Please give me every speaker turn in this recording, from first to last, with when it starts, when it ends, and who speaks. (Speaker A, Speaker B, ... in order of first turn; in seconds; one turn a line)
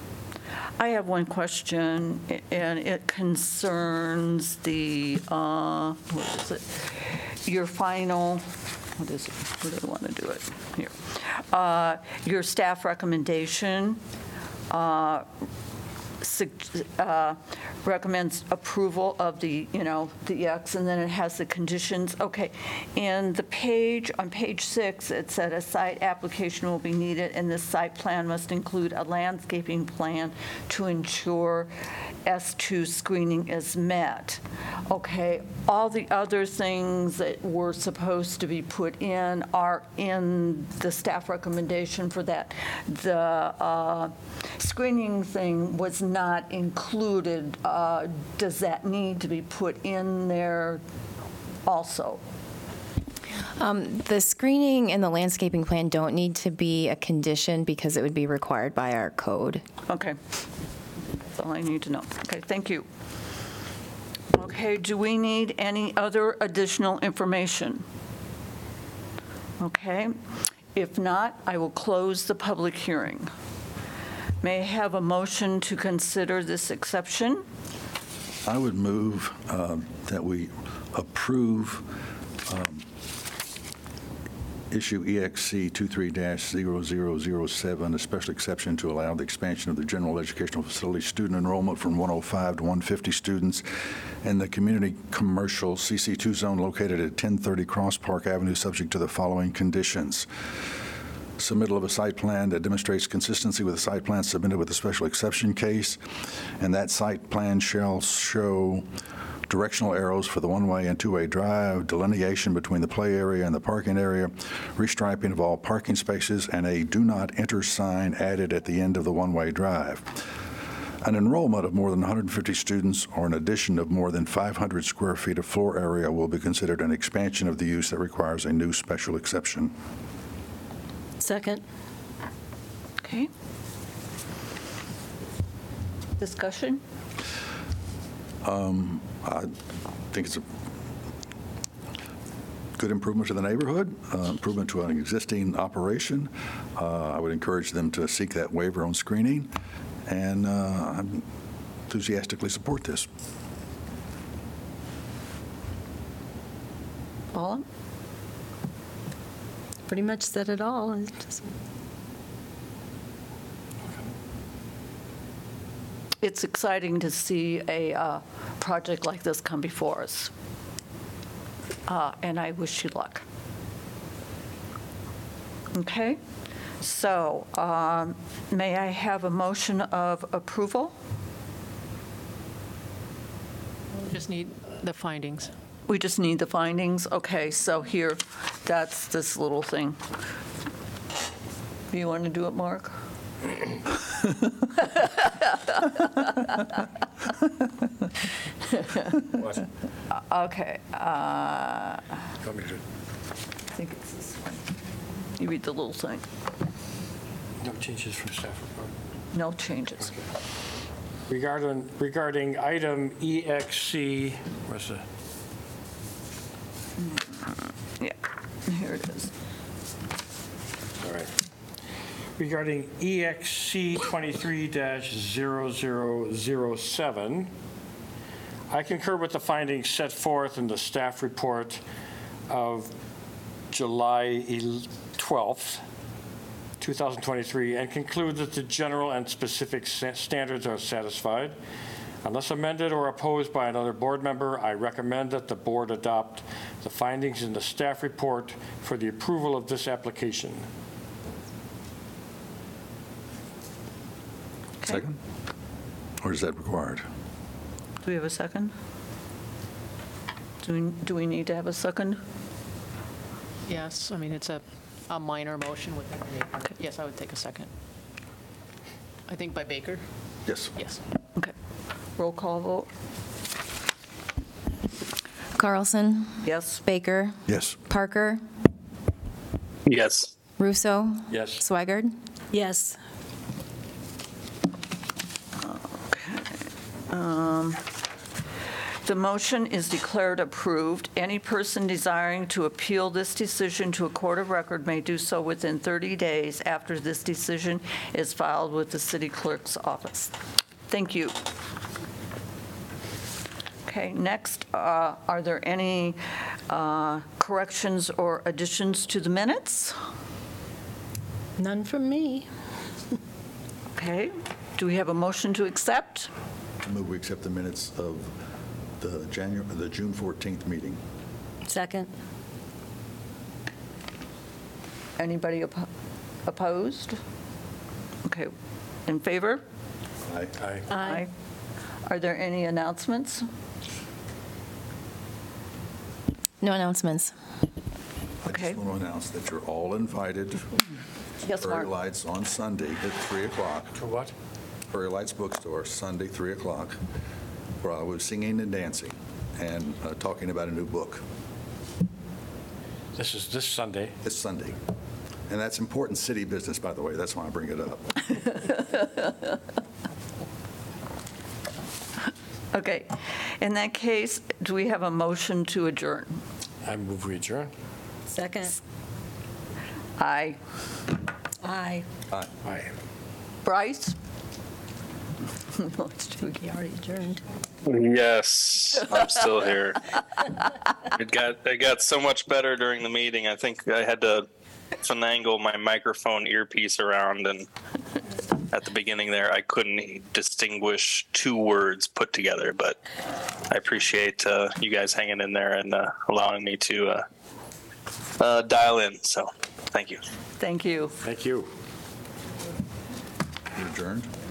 Speaker A: 0.8-14.0
Speaker A: 14.7-15.3
Speaker A: 16.2-31.7
Speaker A: 32.2-50.8
Speaker A: 51.6-52.2
Speaker B: 53.6-59.6
Speaker A: 59.9-60.2
Speaker A: 61.4-62.9
Speaker A: 64.3-67.8
Speaker A: 69.6-70.2
Speaker A: 70.8-73.3
Speaker A: 74.4-77.5
Speaker C: 78.5-81.9
Speaker C: 82.5-82.9
Speaker C: 84.7-100.3
Speaker C: 101.4-106.0
Speaker C: 106.6-108.8
Speaker C: 109.5-120.2
Speaker C: 121.0-129.7
Speaker D: 131.2-131.6
Speaker A: 133.0-133.3
Speaker A: 136.2-136.8
Speaker C: 138.4-139.5
Speaker C: 140.1-140.4
Speaker C: 142.8-149.5
Speaker C: 150.1-151.3
Speaker C: 151.9-153.1
Speaker A: 157.3-157.6
Speaker D: 159.9-161.5
Speaker A: 166.2-170.3
Speaker A: 171.9-173.2
Speaker A: 175.7-176.2
Speaker A: 176.8-180.9
Speaker E: 183.9-185.5
Speaker A: 185.9-190.0
Speaker A: 191.9-193.0
Speaker A: 194.8-196.7
Speaker A: 198.7-199.3
Speaker F: 199.3-199.7
Speaker A: 200.1-202.2
Speaker F: 202.4-202.8
Speaker A: 203.8-204.6
Speaker A: 205.4-206.3
Speaker F: 207.6-208.9
Speaker A: 209.3-210.1
Speaker F: 211.3-215.0
Speaker A: 217.1-219.3
Speaker F: 221.0-221.3
Speaker F: 222.4-227.5
Speaker F: 228.7-231.8
Speaker F: 232.5-232.9
Speaker F: 233.7-235.8
Speaker F: 236.8-241.6
Speaker F: 242.2-250.7
Speaker C: 254.9-255.2
Speaker C: 256.2-257.1
Speaker A: 258.0-258.7
Speaker A: 260.6-262.2
Speaker E: 263.7-267.7
Speaker E: 269.3-270.0
Speaker C: 270.5-270.8
Speaker E: 270.8-271.0
Speaker A: 272.2-272.9
Speaker B: 275.6-278.4
Speaker A: 276.4-276.8
Speaker C: 277.5-277.8
Speaker G: 279.9-280.3
Speaker B: 280.6-282.1
Speaker F: 281.3-281.6
Speaker D: 282.5-283.0
Speaker A: 285.6-287.8
Speaker A: 289.1-300.3
Speaker A: 300.9-301.4
Speaker A: 303.9-310.0
Speaker D: 311.6-312.5
Speaker A: 313.9-316.3
Speaker C: 316.8-318.3
Speaker C: 319.0-321.0
Speaker D: 321.6-322.1
Speaker A: 325.2-325.9
Speaker A: 326.5-327.2
Speaker A: 328.2-328.5
Speaker A: 329.1-329.6
Speaker C: 330.2-330.6
Speaker F: 330.6-330.9
Speaker D: 330.9-331.2
Speaker A: 331.0-331.3
Speaker A: 332.1-333.5
Speaker B: 336.6-337.3
Speaker C: 338.4-340.7
Speaker A: 338.5-338.8
Speaker A: 341.4-341.9
Speaker C: 341.6-344.0
Speaker F: 344.0-344.3
Speaker C: 344.9-347.0
Speaker C: 347.8-351.2
Speaker F: 353.2-354.2
Speaker C: 354.2-354.8
Speaker C: 355.5-358.4
Speaker A: 362.7-366.4
Speaker F: 366.8-367.7
Speaker D: 368.3-368.8
Speaker A: 370.2-370.6
Speaker D: 371.6-372.1
Speaker F: 372.6-372.9
Speaker A: 373.6-374.2
Speaker A: 375.7-376.6
Speaker D: 376.6-377.4
Speaker G: 377.8-380.0
Speaker G: 381.1-384.5
Speaker G: 385.0-387.7
Speaker G: 388.7-393.0
Speaker G: 393.7-397.2
Speaker G: 398.4-400.2
Speaker A: 400.6-401.1
Speaker F: 401.2-401.7
Speaker C: 403.7-404.3